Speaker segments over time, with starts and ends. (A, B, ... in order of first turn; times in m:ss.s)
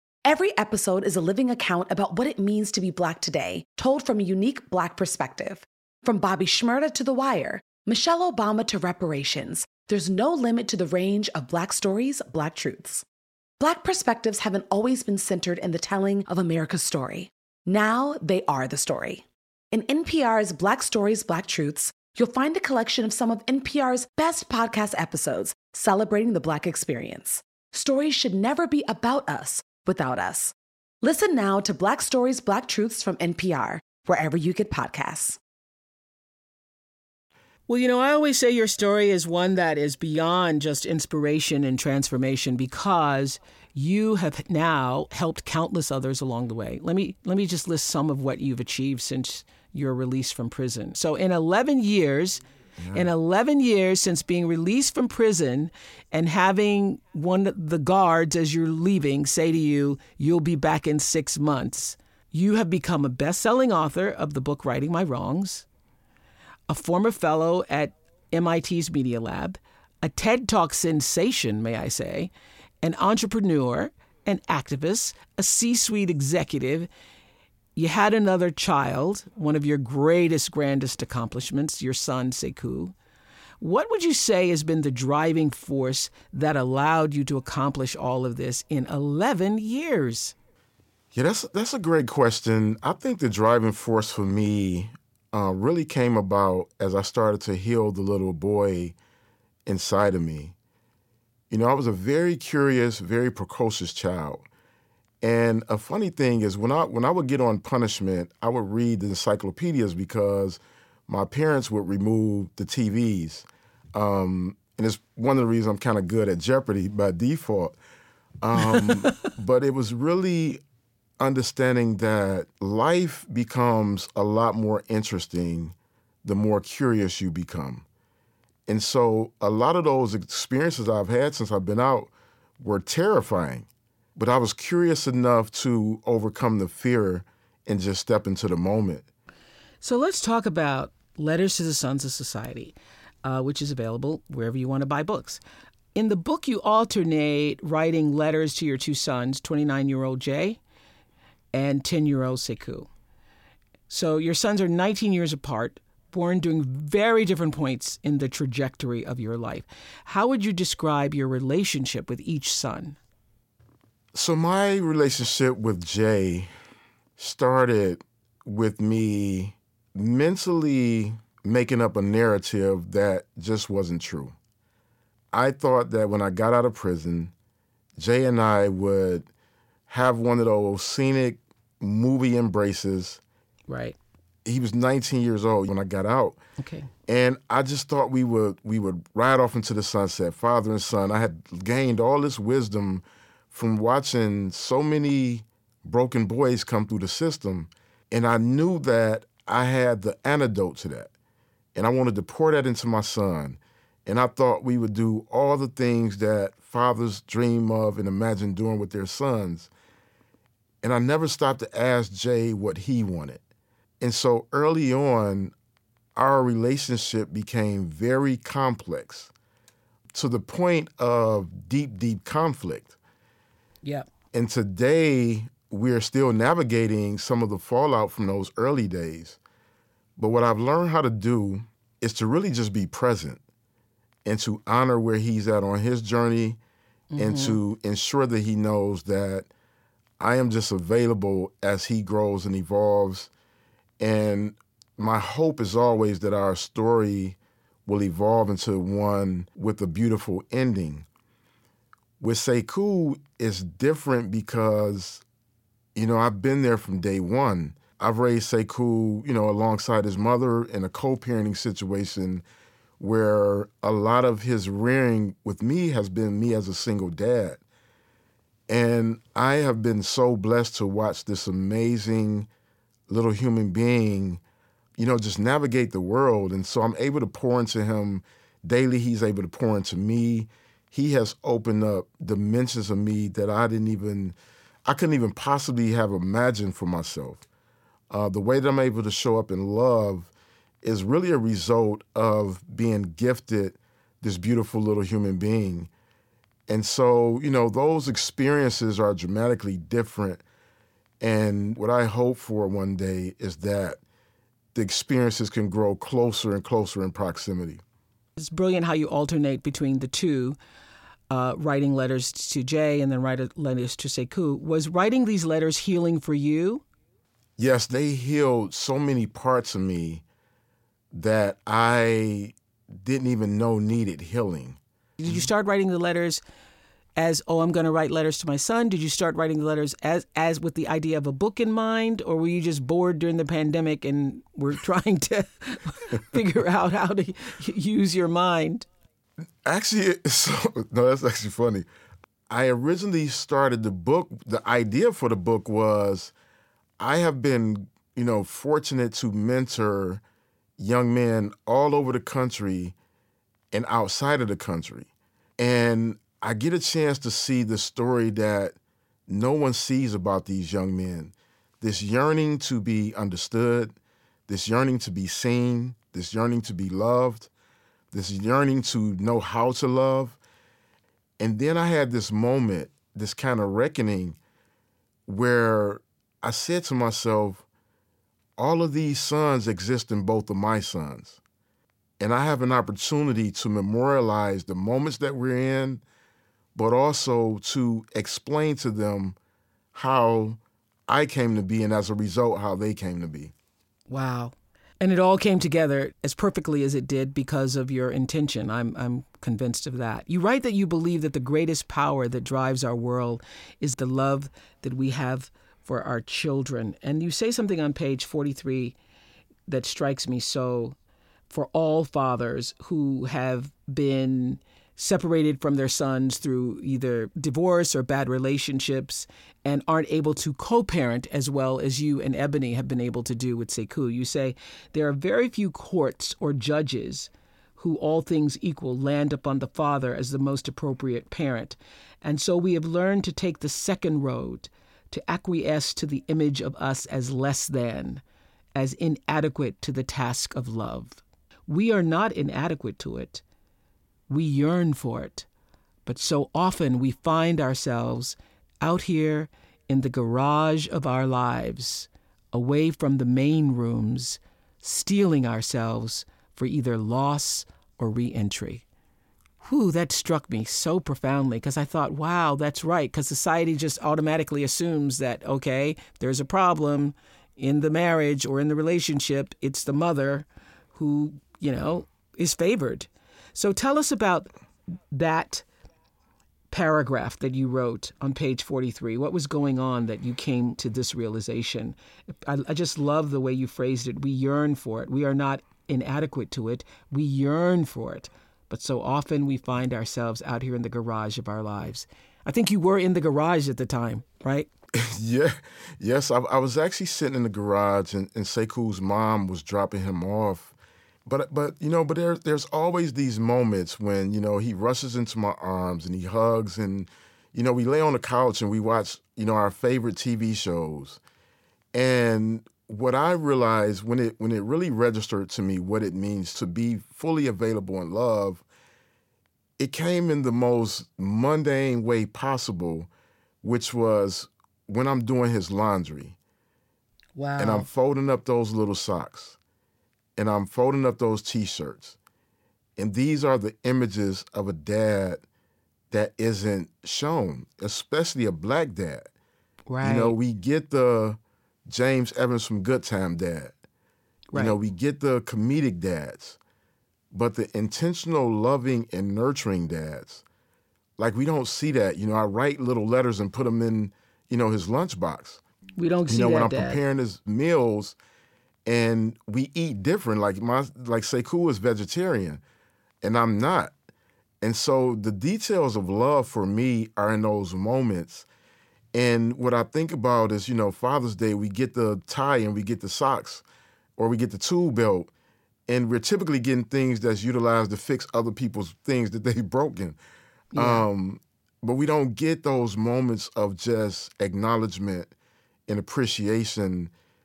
0:00.2-0:13.0 A
0:13.6-0:35.4 A
0:37.7-0:52.4 B
0:52.8-0:53.1 C
0:52.9-1:05.7 B
1:06.7-1:12.3 B
1:12.8-1:16.9 B
1:17.8-1:22.9 B
1:23.6-1:30.3 B
1:31.1-1:39.0 C
1:39.7-1:40.6 C
1:41.5-1:44.4 C
1:45.2-1:57.8 C
1:58.4-2:00.6 C
1:59.0-1:59.3 B
2:01.2-2:07.9 C
2:08.7-2:19.0 C
2:19.8-2:25.4 B
2:26.0-2:30.6 B
2:31.5-2:32.9 B
2:33.9-2:43.0 B
2:44.2-2:46.5 C
2:47.2-2:54.4 C
2:55.3-2:57.3 C
2:58.0-2:59.3 C
2:59.9-3:03.2 C
3:03.7-3:04.0 B
3:04.4-3:06.4 C
3:06.6-3:06.9 B
3:07.1-3:21.1 C
3:21.8-3:29.7 C
3:30.8-3:33.4 C
3:34.0-3:35.5 C
3:36.2-3:39.3 C
3:40.1-3:43.0 C
3:44.3-3:49.4 C
3:50.2-3:53.4 C
3:54.2-3:56.6 C
3:57.1-3:57.6 B
3:57.2-3:59.5 C
4:00.2-4:03.3 C
4:04.0-4:11.1 C
4:12.2-4:15.2 C
4:16.0-4:22.4 C
4:23.0-4:27.6 C
4:28.7-4:32.5 C
4:33.1-4:34.4 C
4:35.0-4:47.4 C
4:48.1-4:50.3 C
4:50.8-4:55.9 C
4:56.7-5:00.4 C
5:01.2-5:04.0 C
5:04.7-5:07.8 C
5:08.4-5:10.6 B
5:11.3-5:16.8 B
5:17.6-5:20.2 C
5:21.1-5:25.5 C
5:25.2-5:26.4 B
5:27.2-5:38.9 B
5:39.6-5:41.9 C
5:42.5-5:46.3 C
5:47.0-5:50.2 C
5:50.8-5:53.0 C
5:53.7-5:58.8 C
5:59.3-6:04.0 C
6:04.5-6:07.5 C
6:08.1-6:10.4 C
6:11.4-6:14.4 C
6:15.3-6:17.6 C
6:18.6-6:21.4 C
6:22.2-6:26.0 C
6:26.8-6:29.4 C
6:29.9-6:33.5 C
6:34.1-6:49.0 B
6:49.7-6:51.0 B
6:51.5-7:18.2 B
7:18.8-7:23.4 B
7:24.3-7:25.5 B
7:26.1-7:38.8 B
7:39.6-7:54.5 B
7:55.1-7:55.6 B
7:56.7-8:14.7 B
8:15.0-8:20.7 C
8:21.2-8:31.2 C
8:31.9-8:38.6 C
8:39.8-8:43.1 C
8:43.6-8:46.4 C
8:47.4-8:47.9 B
8:47.6-8:49.6 C
8:50.4-8:52.2 C
8:53.0-8:55.4 C
8:56.1-8:59.3 C
8:59.9-9:00.4 B
9:00.0-9:03.7 C
9:04.5-9:04.8 B
9:04.6-9:06.6 C
9:07.3-9:10.4 C
9:11.2-9:15.6 C
9:16.0-9:17.0 B
9:16.3-9:18.2 C
9:18.9-9:22.6 C
9:23.2-9:23.9 C
9:24.6-9:28.5 C
9:29.1-9:33.6 C
9:34.2-9:35.3 C
9:35.9-9:40.2 C
9:40.7-9:41.0 B
9:40.8-9:45.3 C
9:45.9-9:47.1 C